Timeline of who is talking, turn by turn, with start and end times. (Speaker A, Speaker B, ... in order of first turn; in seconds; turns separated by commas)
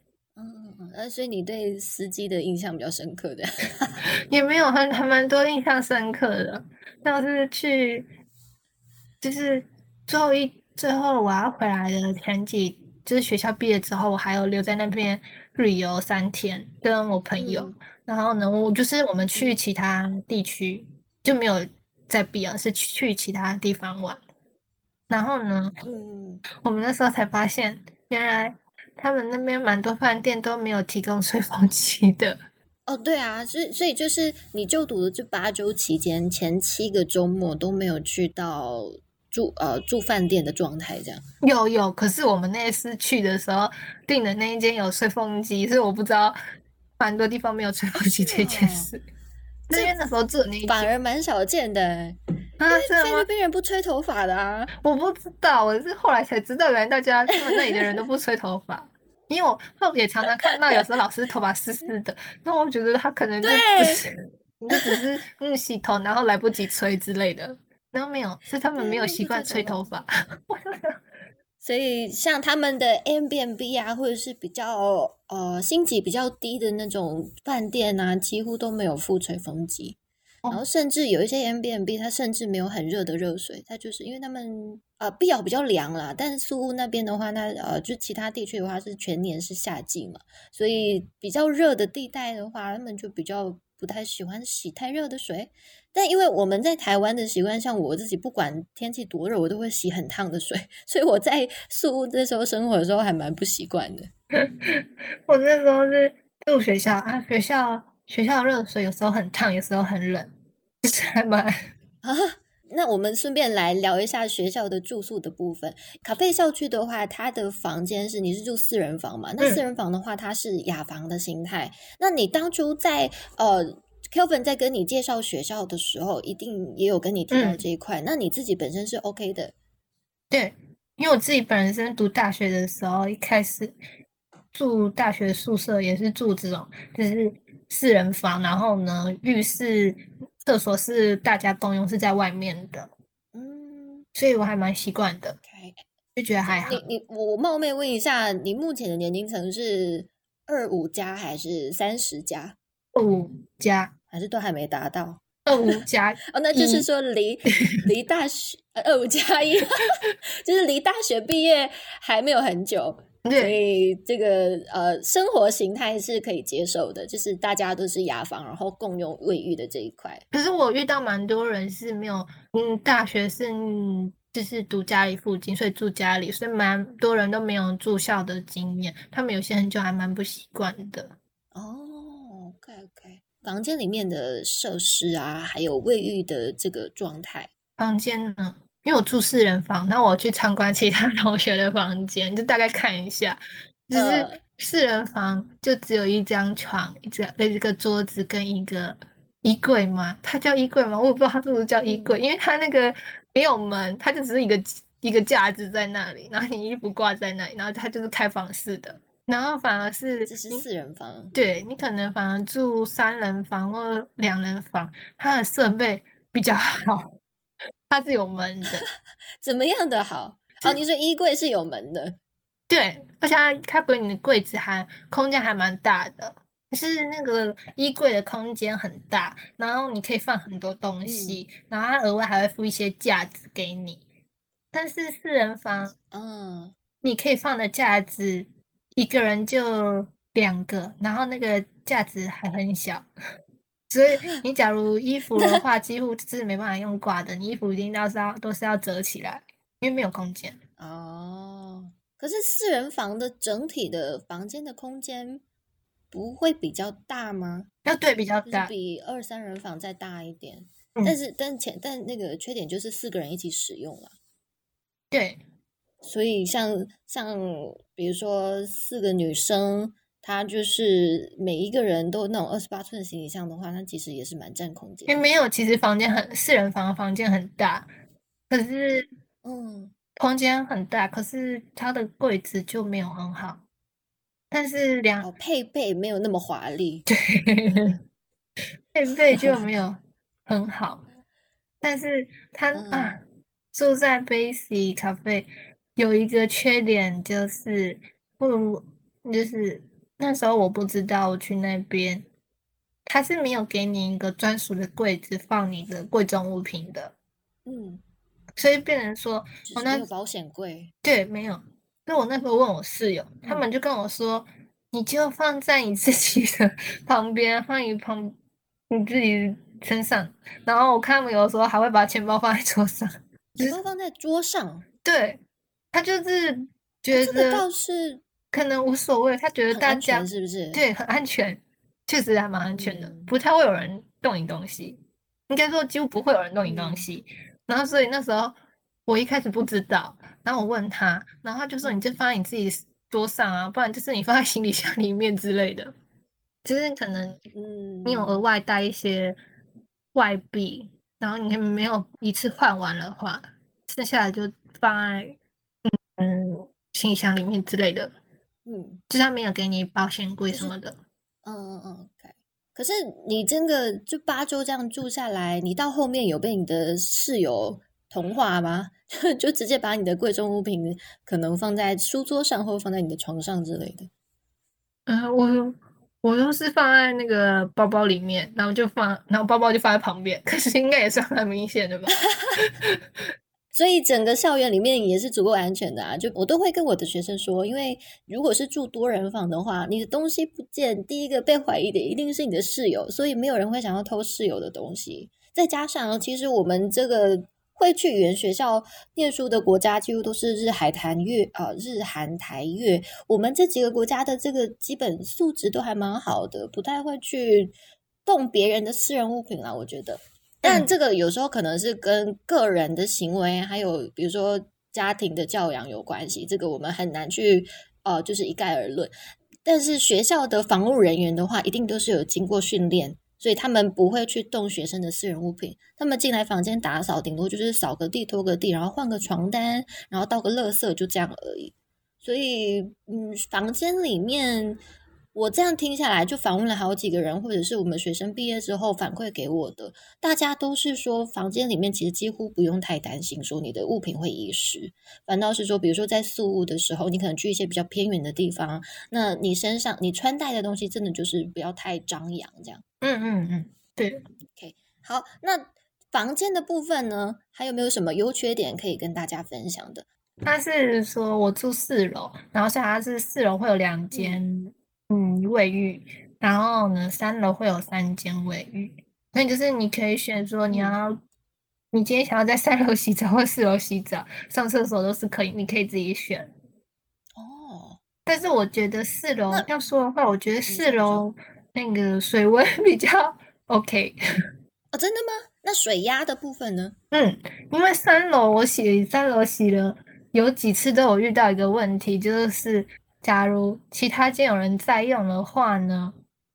Speaker A: 0.4-4.0, Speaker B: 4.3-8.1, Speaker B: 9.2-24.2, Speaker A: 17.4-17.8, Speaker B: 25.1-25.8, Speaker A: 25.8-26.4, Speaker B: 26.6-32.4, Speaker A: 32.9-41.2, Speaker B: 41.4-46.4, Speaker B: 47.0-49.0, Speaker A: 48.2-48.9, Speaker B: 49.7-50.9, Speaker A: 50.7-52.2, Speaker B: 52.6-53.3, Speaker A: 52.7-54.7, Speaker B: 54.8-71.0, Speaker A: 63.4-64.0, Speaker A: 64.7-65.0, Speaker A: 68.7-69.8, Speaker A: 71.6-80.0, Speaker A: 80.5-104.1, Speaker B: 104.3-110.3, Speaker B: 110.8-111.6, Speaker A: 112.0-129.5, Speaker B: 127.3-127.6, Speaker B: 130.3-133.8, Speaker B: 134.5-142.9, Speaker A: 143.3-144.1, Speaker B: 144.1-145.4, Speaker A: 145.5-145.8, Speaker B: 146.2-146.8, Speaker A: 146.4-152.6, Speaker B: 152.9-153.9, Speaker A: 154.1-155.7, Speaker B: 155.4-156.8, Speaker A: 156.3-170.2, Speaker B: 163.2-163.6, Speaker B: 170.3-181.1, Speaker A: 181.5-187.5, Speaker B: 187.8-210.6, Speaker A: 193.9-194.4, Speaker A: 201.8-202.2, Speaker A: 210.2-211.3, Speaker B: 211.3-217.1, Speaker B: 217.9-218.8, Speaker A: 219.4-222.2, Speaker B: 222.7-234.0, Speaker A: 231.0-231.4, Speaker B: 234.7-235.9, Speaker A: 236.1-236.8, Speaker B: 237.0-243.1, Speaker B: 243.9-250.6, Speaker A: 244.1-244.4, Speaker A: 245.3-245.6, Speaker A: 250.8-255.4, Speaker A: 256.1-257.7, Speaker B: 257.8-258.7, Speaker A: 258.4-264.1, Speaker B: 265.1-265.4, Speaker A: 266.0-275.2, Speaker B: 275.1-277.9, Speaker B: 278.5-279.1, Speaker A: 279.4-279.9, Speaker B: 280.1-283.6, Speaker B: 284.5-285.3, Speaker A: 285.2-287.1, Speaker B: 287.1-288.0, Speaker B: 288.9-291.0, Speaker A: 289.3-289.7, Speaker B: 291.8-293.2, Speaker A: 292.7-293.2, Speaker B: 293.7-302.2, Speaker B: 303.1-307.1, Speaker A: 307.6-308.0, Speaker B: 308.6-310.1, Speaker A: 309.6-310.9, Speaker B: 311.0-318.4, Speaker B: 318.9-323.8, Speaker A: 323.6-324.9, Speaker B: 325.0-325.4, Speaker B: 325.9-327.6, Speaker A: 327.1-328.2, Speaker B: 328.5-345.9, Speaker A: 329.7-330.8, Speaker A: 332.7-333.3, Speaker A: 336.6-337.1, Speaker A: 341.8-342.1, Speaker B: 346.6-347.4, Speaker A: 347.5-348.4, Speaker B: 348.1-349.4, Speaker B: 350.1-355.3, Speaker B: 355.8-358.1, Speaker A: 358.6-359.0, Speaker B: 359.1-361.0, Speaker A: 361.4-374.1, Speaker B: 375.1-383.0, Speaker A: 382.3-382.5, Speaker A: 383.7-407.7, Speaker A: 408.2-419.1, Speaker B: 410.6-410.9, Speaker A: 419.6-434.8, Speaker A: 435.3-452.8, Speaker B: 453.0-454.2, Speaker A: 454.6-460.0, Speaker B: 460.4-471.2, Speaker A: 464.1-464.4, Speaker A: 470.7-470.9, Speaker B: 471.9-476.5, Speaker A: 477.4-478.0, Speaker B: 478.2-484.2, Speaker A: 480.7-481.2, Speaker A: 484.9-486.9, Speaker B: 487.1-496.1